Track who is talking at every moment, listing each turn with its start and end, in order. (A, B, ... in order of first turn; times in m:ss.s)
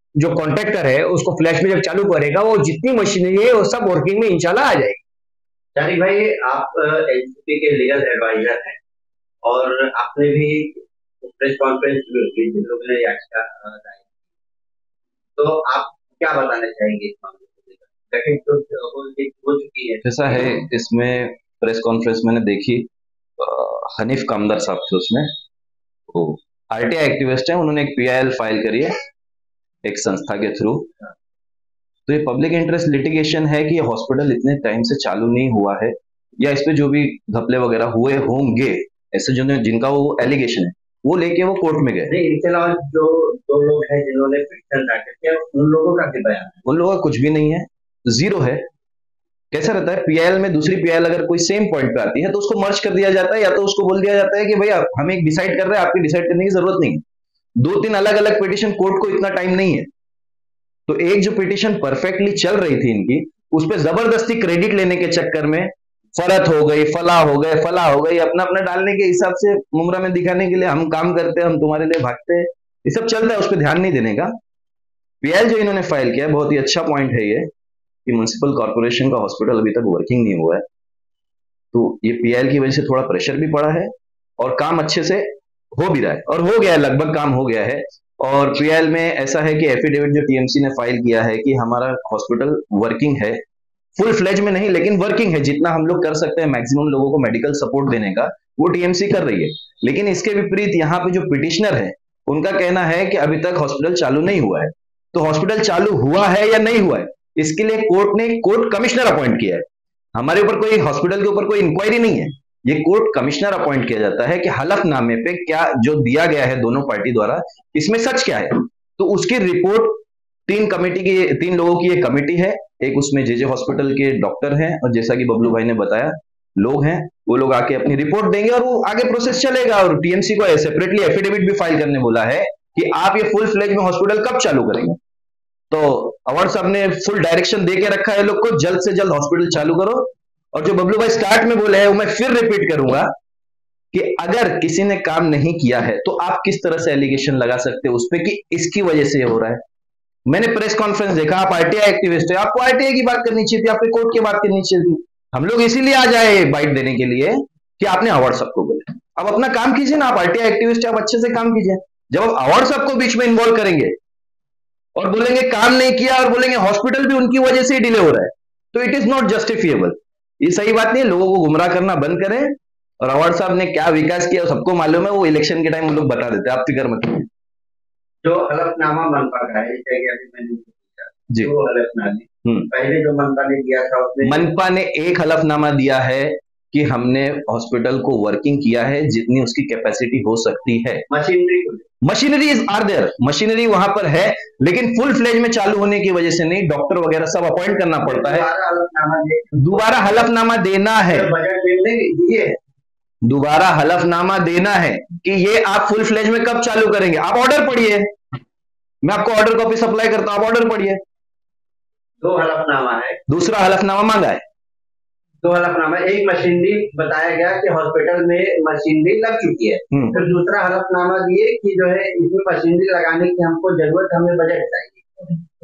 0:00.2-0:05.0 A
0:05.7-0:08.8 B
0:09.4-0:14.1 B
0:15.4-0:20.4 B
0:20.0-0:25.3 C
0:26.1-0:28.9 C
0:29.8-0:31.1 C
0:32.1-0:42.1 C
0:42.1-0:46.6 B
0:46.6-0:48.6 C
0:49.5-0:57.0 C
0:57.6-0:59.9 C
1:00.9-1:14.3 C
1:15.2-1:17.5 C
1:18.0-1:20.6 C
1:21.7-1:33.4 C
1:34.0-2:15.0 C
2:15.7-2:23.1 C
2:23.9-2:29.6 C
2:30.3-2:43.9 C
2:45.0-2:57.3 C
2:58.2-3:04.4 B
3:04.2-3:11.0 C
3:11.1-3:11.8 B
3:12.0-3:18.5 C
3:18.0-3:20.3 B
3:19.6-3:21.3 C
3:21.1-3:22.6 B
3:23.2-3:28.1 C
3:29.0-3:31.0 C
3:32.2-3:33.2 B
3:33.3-3:34.4 C
3:35.4-3:45.4 B
3:39.9-3:40.3 C